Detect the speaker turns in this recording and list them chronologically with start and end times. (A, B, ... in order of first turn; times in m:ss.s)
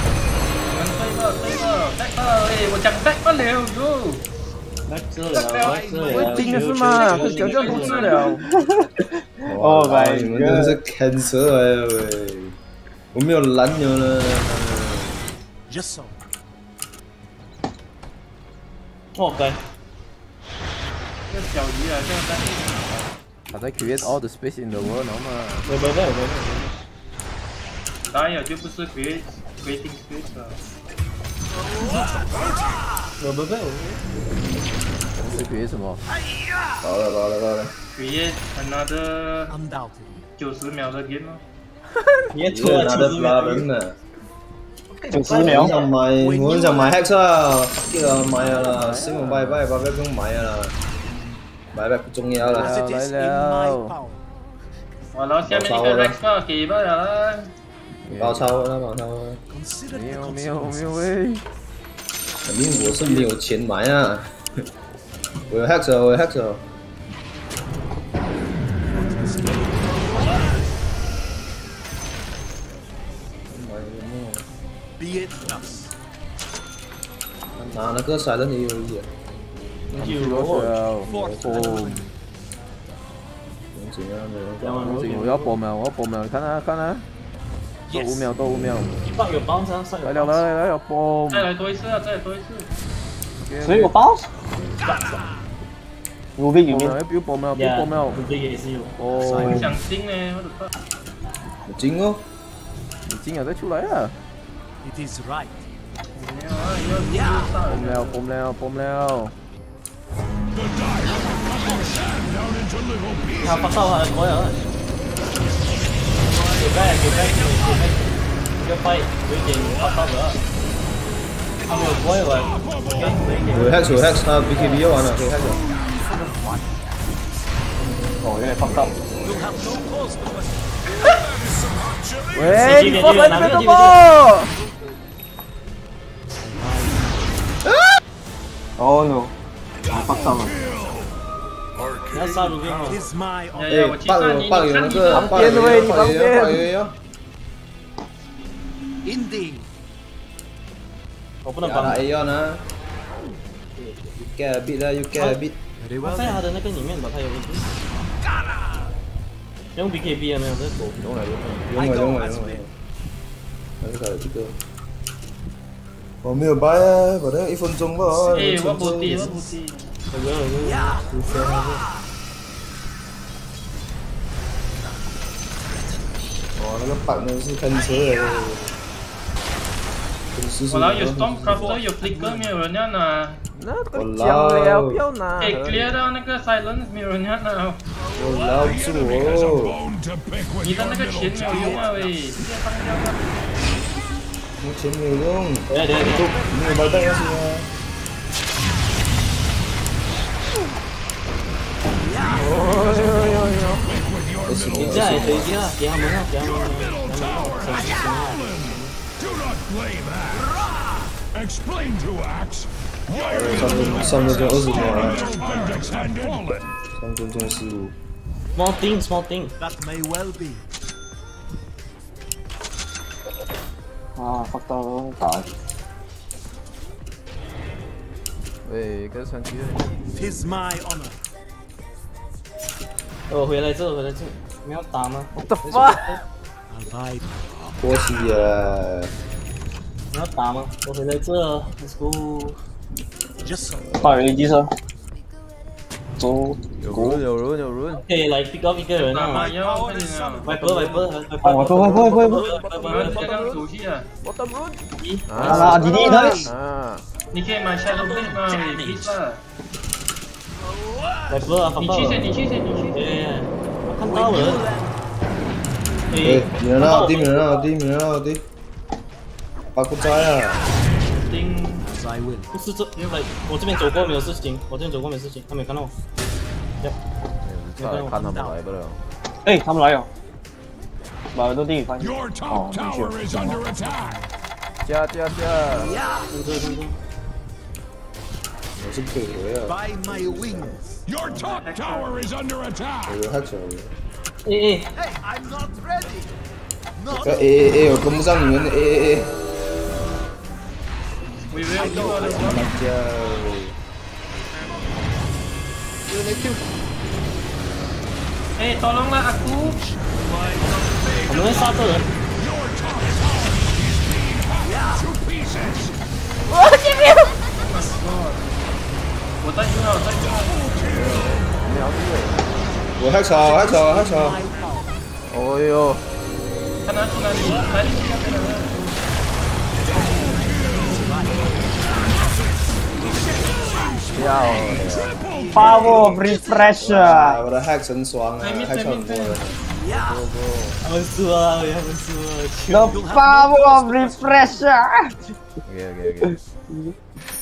0:00.7-0:04.2 A
0:04.9-0:08.2 B
0:05.3-0:06.0 A
0:05.5-0:08.1 C
0:06.0-0:08.4 D
0:06.9-0:08.4 A
0:08.6-0:10.8 E
0:09.4-0:12.6 F
0:13.1-0:15.2 F
0:15.7-0:16.2 C
0:19.2-0:19.6 B
0:21.3-0:22.9 A
0:23.5-0:25.7 D
0:25.6-0:26.7 B
0:28.1-0:30.6 A
0:32.0-0:32.5 C
0:33.2-0:34.0 B
0:35.1-0:36.0 D
0:36.1-0:36.7 C
0:36.8-0:37.7 F
0:38.0-0:39.6 A
0:39.5-0:40.3 C
0:40.4-0:41.4 A
0:42.3-0:43.7 B
0:42.5-0:44.0 F
0:44.9-0:45.9 B
0:45.1-0:45.8 E
0:45.2-0:50.7 F
0:46.0-0:47.0 C
0:48.6-0:49.6 D
0:51.7-0:52.8 F
0:52.4-0:54.0 D
0:52.5-0:54.2 C
0:55.1-0:57.5 A
0:55.4-0:56.2 F
0:58.0-0:58.5 D
0:58.2-0:59.4 F
0:59.5-1:01.1 C
0:59.9-1:01.4 D
1:02.4-1:04.3 F
1:05.5-1:06.6 F
1:08.8-1:10.6 C
1:13.5-1:14.4 F
1:15.0-1:15.9 C
1:17.6-1:19.1 F
1:19.9-1:20.7 B
1:20.0-1:22.1 D
1:21.0-1:22.1 C
1:21.1-1:21.8 F
1:23.7-1:25.1 F
1:24.6-1:25.6 B
1:24.8-1:27.0 D
1:27.9-1:28.4 C
1:27.9-1:29.0 D
1:29.1-1:30.4 B
1:30.0-1:31.5 D
1:31.3-1:32.7 A
1:33.4-1:34.0 D
1:33.6-1:34.3 E
1:34.8-1:35.5 C
1:36.4-1:37.0 E
1:36.7-1:38.2 D
1:37.5-1:38.9 B
1:39.0-1:39.7 D
1:39.1-1:39.8 C
1:39.3-1:39.7 E
1:39.4-1:40.7 A
1:41.7-1:42.2 F
1:43.0-1:44.1 D
1:44.8-1:45.6 C
1:46.1-1:48.2 A
1:46.9-1:47.5 C
1:47.6-1:49.3 D
1:50.5-1:53.9 G
1:53.4-1:54.6 B
1:56.2-1:58.0 C
1:56.6-1:58.0 B
1:58.6-2:00.4 B
2:01.7-2:04.8 B
2:01.8-2:03.4 G
2:03.5-2:05.6 F
2:05.8-2:07.0 C
2:08.2-2:08.9 E
2:09.2-2:10.9 C
2:11.0-2:13.2 G
2:12.3-2:14.5 D
2:12.6-2:14.0 B
2:16.4-2:17.6 C
2:18.8-2:19.3 E
2:19.9-2:20.6 E
2:19.9-2:21.1 G
2:21.8-2:23.1 G
2:22.1-2:23.0 B
2:22.9-2:23.9 C
2:23.5-2:25.7 A
2:23.7-2:27.0 F
2:25.1-2:26.7 D
2:29.0-2:29.7 C
2:31.4-2:32.0 B
2:31.6-2:32.6 F
2:33.8-2:35.6 F
2:35.8-2:36.5 C
2:36.0-2:37.8 B
2:38.0-2:38.9 C
2:39.8-2:40.8 B
2:40.8-2:42.7 F
2:41.7-2:42.6 C
2:43.8-2:44.6 F
2:46.2-2:49.4 F
2:48.2-2:49.3 C
2:48.3-2:49.9 A
2:50.1-2:51.8 B
2:50.6-2:51.3 C
2:51.3-2:51.5 F
2:56.6-2:58.7 F
3:00.3-3:01.8 F
3:00.7-3:03.4 A
3:03.6-3:06.0 D
3:03.9-3:05.0 F
3:05.4-3:07.8 A
3:08.1-3:09.8 F
3:08.5-3:12.0 G
3:10.6-3:13.3 A
3:11.5-3:12.3 C
3:14.6-3:17.7 F
3:15.7-3:16.3 B
3:16.5-3:17.0 C
3:22.0-3:23.5 C
3:22.4-3:23.8 D
3:23.6-3:30.7 G
3:24.4-3:25.6 F
3:24.8-3:28.9 B
3:25.3-3:25.8 C
3:30.5-3:31.0 C
3:31.3-3:36.7 G
3:33.3-3:38.0 F
3:34.9-3:35.8 C
3:38.6-3:39.5 B
3:39.6-3:40.6 C
3:44.2-3:45.5 E
3:48.6-3:49.9 D
3:50.1-3:51.2 C
3:53.3-3:56.2 B
3:55.4-3:56.2 D
3:56.7-3:58.4 C
3:57.8-3:59.1 F
4:00.1-4:02.6 B
4:03.4-4:04.2 C
4:04.0-4:04.3 F
4:04.0-4:04.7 E
4:06.2-4:07.2 E
4:06.8-4:08.0 D
4:07.9-4:09.5 B
4:09.0-4:10.5 A
4:09.2-4:11.0 C
4:10.4-4:13.5 B
4:11.4-4:12.4 E
4:11.9-4:13.6 D
4:12.8-4:14.1 A
4:14.2-4:17.0 D
4:15.0-4:16.2 B
4:15.4-4:16.5 E
4:15.4-4:16.5 C
4:17.3-4:19.4 A
4:17.9-4:19.1 B
4:20.6-4:21.7 C
4:21.3-4:24.6 B
4:21.8-4:23.1 A
4:23.9-4:25.1 C
4:26.1-4:27.7 B
4:26.2-4:28.4 F
4:29.7-4:30.6 F
4:31.2-4:31.9 A
4:31.3-4:32.5 C
4:32.5-4:35.9 B
4:33.0-4:33.3 A
4:37.4-4:39.0 D
4:37.8-4:38.2 B
4:38.1-4:38.6 C
4:39.4-4:40.1 E
4:41.3-4:43.6 E
4:42.0-4:44.2 G
4:43.5-4:44.3 C
4:44.8-4:46.0 D
4:45.7-4:46.4 C
4:46.3-4:46.9 B
4:48.8-4:50.8 F
4:49.6-4:51.0 C
4:51.0-4:53.2 G
4:51.2-4:52.2 A
4:53.1-4:53.9 F
4:54.4-4:54.9 B
4:54.9-4:56.4 C
4:56.9-4:58.0 C
4:57.1-4:59.4 F
5:01.5-5:02.7 A
5:01.7-5:02.7 C
5:01.8-5:03.8 F
5:06.1-5:06.7 C
5:08.6-5:09.8 A
5:09.5-5:12.0 C
5:11.3-5:12.0 B
5:12.3-5:16.0 G
5:14.6-5:15.0 C
5:16.5-5:17.4 D
5:17.5-5:18.5 A
5:17.6-5:18.0 C
5:19.4-5:20.8 A
5:20.6-5:21.2 G
5:20.9-5:21.4 F
5:21.4-5:22.7 D
5:23.0-5:24.4 F
5:23.3-5:25.0 C
5:25.3-5:26.0 D
5:26.8-5:29.0 A
5:29.8-5:32.0 C
5:30.0-5:31.2 G
5:33.0-5:36.3 G
5:33.0-5:37.2 C
5:34.1-5:35.2 D
5:35.5-5:37.4 E
5:36.8-5:40.8 F
5:38.4-5:39.4 A
5:39.7-5:40.3 C
5:40.8-5:43.0 B
5:42.7-5:45.1 E
5:42.8-5:44.6 C
5:45.6-5:46.4 D
5:46.2-5:46.9 E